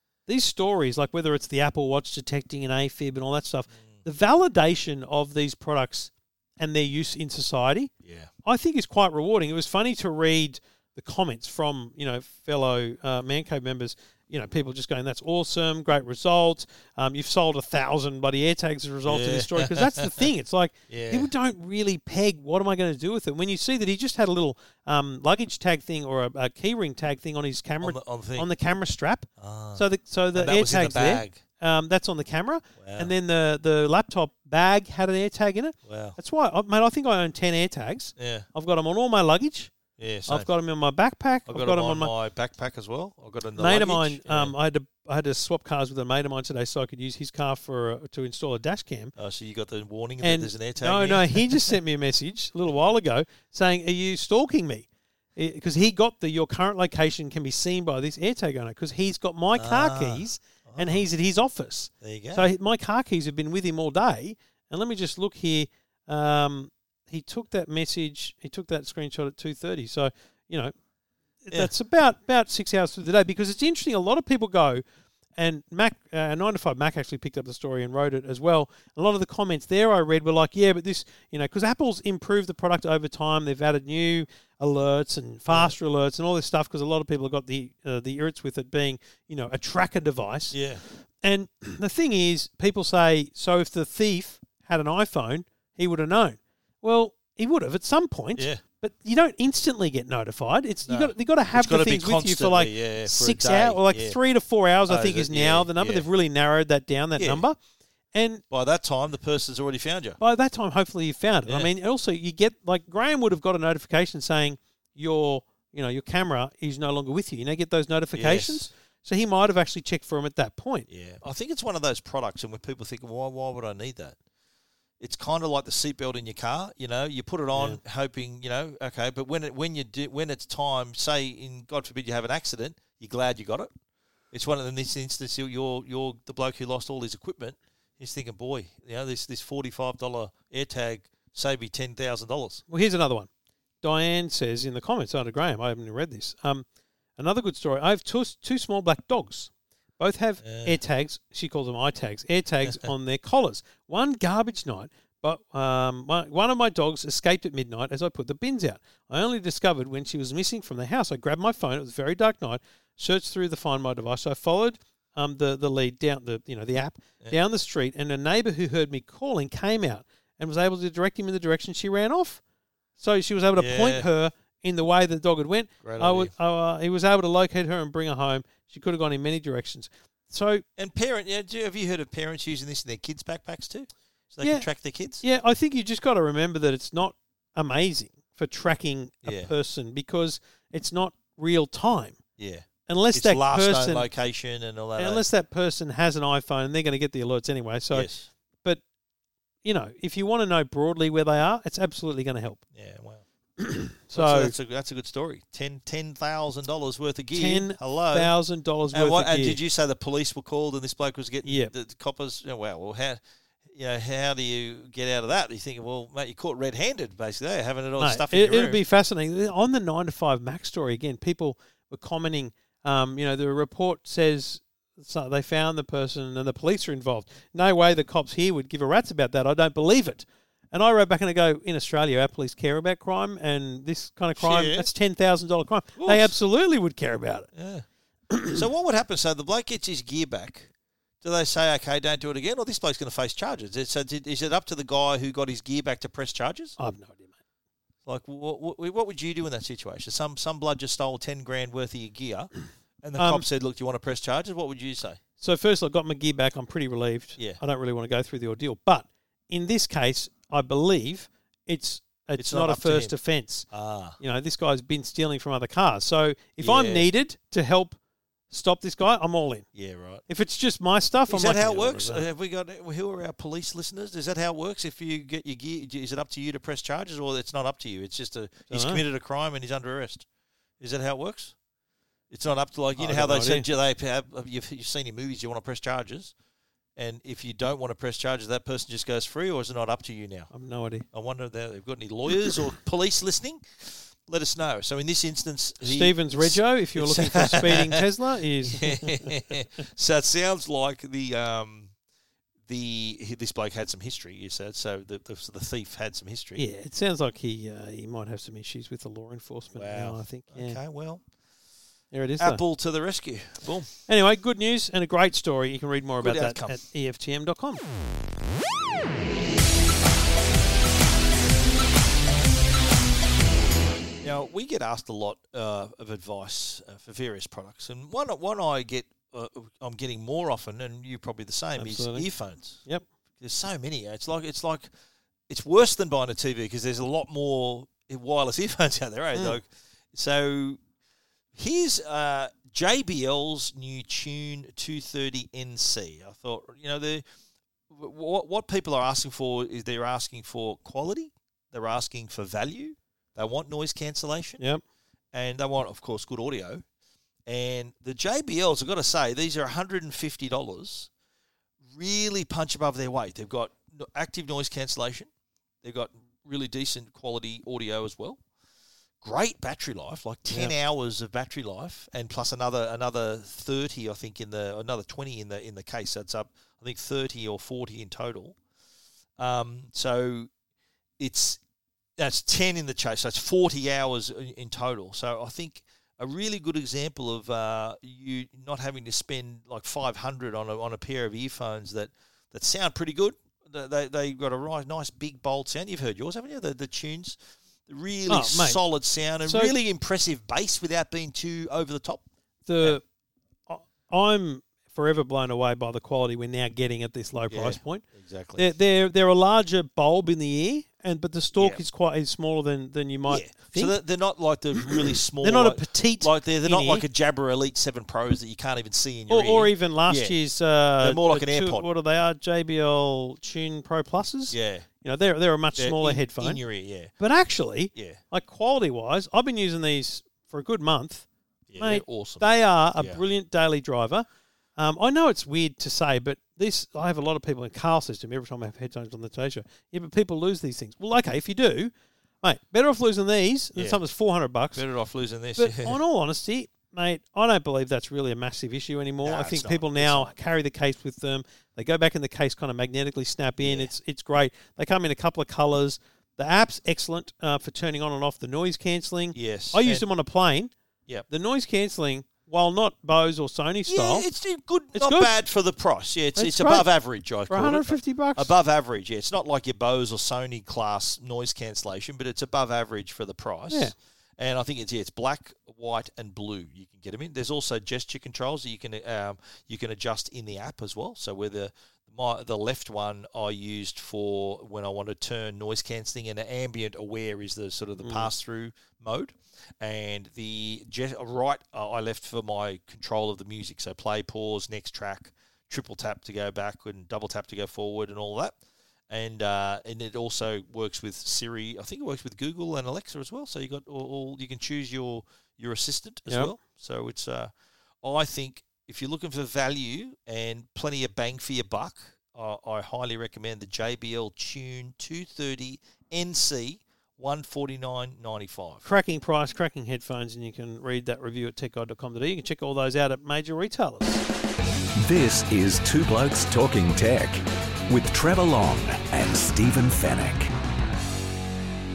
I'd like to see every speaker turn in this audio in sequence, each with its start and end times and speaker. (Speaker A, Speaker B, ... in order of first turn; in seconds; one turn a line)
Speaker A: 0.2-7.9
Speaker B: 8.0-8.3
Speaker A: 8.4-39.7
Speaker B: 19.1-20.3
Speaker B: 20.9-21.3
Speaker B: 27.8-28.5
Speaker B: 29.4-31.4
Speaker B: 32.8-33.1
Speaker B: 35.9-36.2
Speaker B: 38.2-38.5
Speaker B: 40.0-40.5
Speaker A: 40.3-42.1
Speaker B: 41.5-44.5
Speaker A: 43.6-49.1
Speaker B: 49.1-51.8
Speaker A: 50.2-70.7
Speaker B: 59.5-61.0
Speaker B: 62.0-62.5
Speaker A: 71.4-74.8
Speaker A: 75.3-107.6
Speaker B: 85.5-85.8
Speaker B: 90.5-90.8
Speaker B: 98.4-98.6
Speaker B: 100.8-104.2
Speaker B: 104.9-106.1
Speaker B: 107.2-107.4
Speaker A: 108.1-108.4
Speaker B: 108.5-110.2
Speaker A: 110.2-120.9
Speaker B: 118.1-118.7
Speaker B: 120.9-124.2
Speaker B: 125.0-133.7
Speaker A: 127.5-127.8
Speaker B: 134.3-142.6
Speaker A: 142.7-143.3
Speaker A: 143.8-146.7
Speaker A: 147.2-172.4
Speaker B: 150.4-150.8
Speaker A: 173.0-180.6
Speaker B: 173.5-174.1
Speaker B: 175.8-176.3
Speaker B: 180.8-185.2
Speaker A: 184.4-184.7
Speaker A: 185.2-192.2
Speaker B: 189.2-189.5
Speaker B: 192.4-195.2
Speaker A: 192.9-194.1
Speaker A: 195.0-198.1
Speaker B: 197.9-198.3
Speaker A: 199.6-202.6
Speaker B: 202.7-203.2
Speaker A: 203.6-204.5
Speaker B: 204.1-208.3
Speaker A: 207.3-209.6
Speaker B: 208.9-218.8
Speaker A: 211.4-211.7
Speaker A: 218.0-237.5
Speaker B: 234.4-234.9
Speaker B: 235.9-236.3
Speaker B: 237.5-237.8
Speaker A: 238.3-238.6
Speaker B: 238.5-240.7
Speaker B: 241.2-246.8
Speaker A: 246.8-247.3
Speaker B: 248.1-252.5
Speaker B: 253.0-255.2
Speaker A: 253.2-253.4
Speaker A: 255.4-263.7
Speaker B: 262.4-263.1
Speaker B: 263.7-264.2
Speaker A: 264.2-268.0
Speaker B: 266.6-267.1
Speaker A: 268.5-269.7
Speaker B: 269.7-270.2
Speaker A: 270.3-272.2
Speaker B: 271.3-280.2
Speaker A: 278.7-279.0
Speaker B: 280.8-281.6
Speaker B: 282.3-286.3
Speaker A: 283.0-283.6
Speaker B: 286.9-290.5
Speaker A: 290.5-291.1
Speaker B: 291.1-298.1
Speaker A: 295.8-299.4
Speaker B: 298.6-301.9
Speaker B: 302.7-306.6
Speaker A: 306.6-310.8
Speaker B: 309.8-311.2
Speaker A: 312.1-312.6
Speaker B: 312.4-313.9
Speaker A: 314.1-317.9
Speaker B: 316.2-316.8
Speaker B: 324.2-332.8
Speaker A: 331.8-332.3
Speaker B: 333.4-334.9
Speaker B: 335.5-340.8
Speaker B: 341.5-347.2
Speaker B: 347.9-354.6
Speaker B: 355.3-356.8
Speaker B: 357.5-361.1
Speaker B: 361.9-365.3
Speaker B: 365.8-368.4
Speaker B: 369.2-378.6
Speaker B: 379.4-380.5
Speaker B: 381.2-381.6
Speaker B: 382.2-402.2
Speaker A: 398.3-398.8
Speaker A: 399.4-399.8
Speaker A: 402.6-403.0
Speaker A: 403.7-408.0
Speaker B: 407.5-408.6
Speaker A: 408.6-413.9
Speaker B: 411.6-411.8
Speaker B: 413.3-420.4
Speaker A: 414.8-417.0
Speaker A: 419.3-426.6
Speaker B: 421.0-421.9
Speaker B: 424.5-424.9
Speaker B: 425.8-427.1
Speaker A: 427.2-431.2
Speaker B: 427.9-428.2
Speaker B: 431.7-433.2
Speaker A: 431.8-434.2
Speaker A: 434.8-444.8
Speaker B: 443.7-444.0
Speaker B: 444.7-446.0
Speaker A: 445.6-460.7
Speaker B: 449.2-450.3
Speaker B: 453.6-453.9
Speaker B: 459.3-460.0
Speaker A: 461.3-464.3
Speaker B: 463.9-498.6
Speaker A: 464.9-465.3
Speaker A: 466.4-466.9
Speaker A: 467.5-468.5
Speaker A: 488.0-488.3
Speaker B: 499.1-507.5
Speaker A: 506.3-506.5
Speaker B: 508.0-518.9
Speaker A: 518.8-524.2
Speaker C: 525.0-530.5